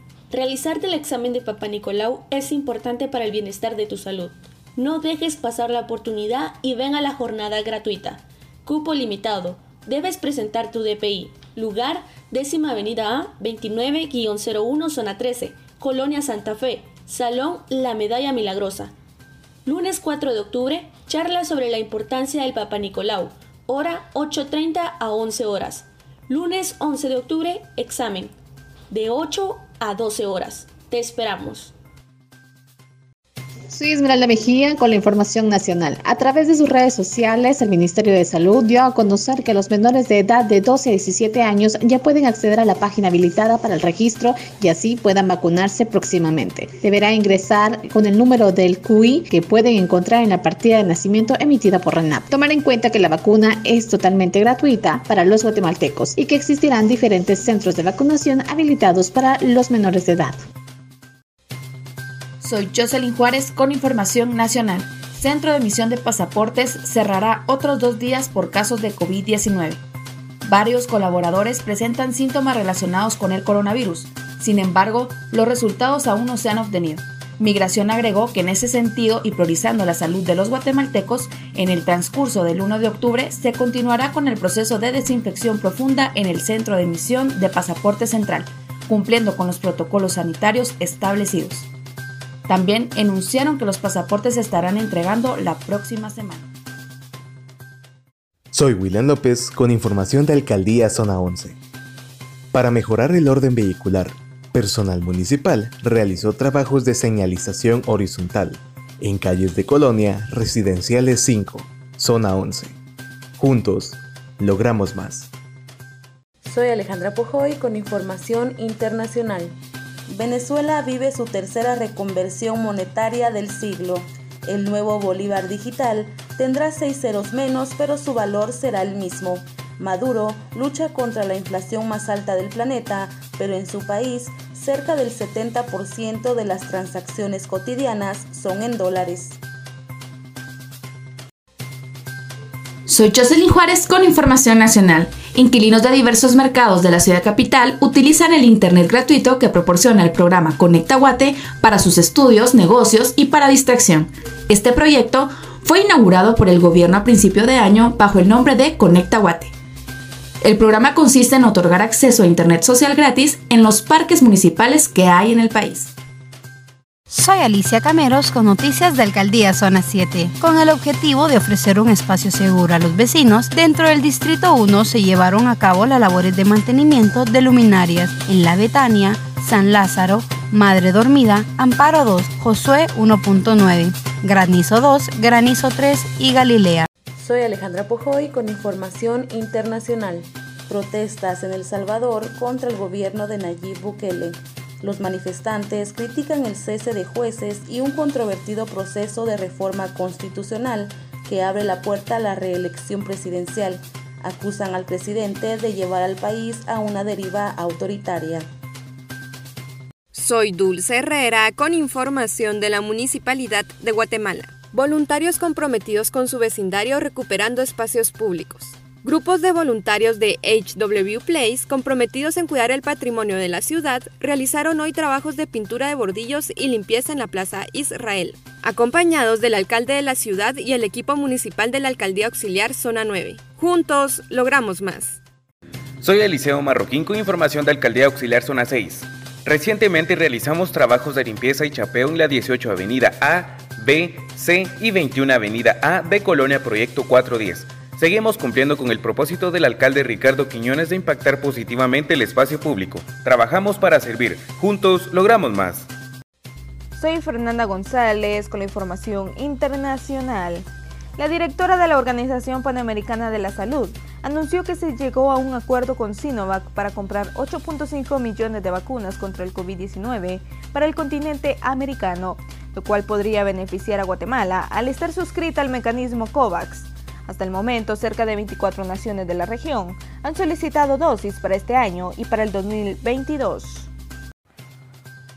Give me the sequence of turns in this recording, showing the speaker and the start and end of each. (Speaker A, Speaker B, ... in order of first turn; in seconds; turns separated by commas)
Speaker A: 0.3-18.9, Speaker A: 19.6-28.3, Speaker A: 28.9-31.7, Speaker B: 33.7-60.4, Speaker C: 62.4-69.8, Speaker C: 70.4-91.7, Speaker C: 92.5-96.5, Speaker D: 98.5-101.6, Speaker D: 102.5-112.8, Speaker D: 113.4-115.3, Speaker E: 116.4-139.4, Speaker E: 142.9-159.5, Speaker C: 148.1-149.3, Speaker C: 150.3-151.8, Speaker C: 152.8-153.3, Speaker C: 153.9-159.5, Speaker C: 160.4-165.9, Speaker E: 160.5-165.8, Speaker F: 167.1-186.8, Speaker E: 187.2-208.5, Speaker G: 210.1-235.2, Speaker H: 236.0-255.9, Speaker I: 256.9-283.9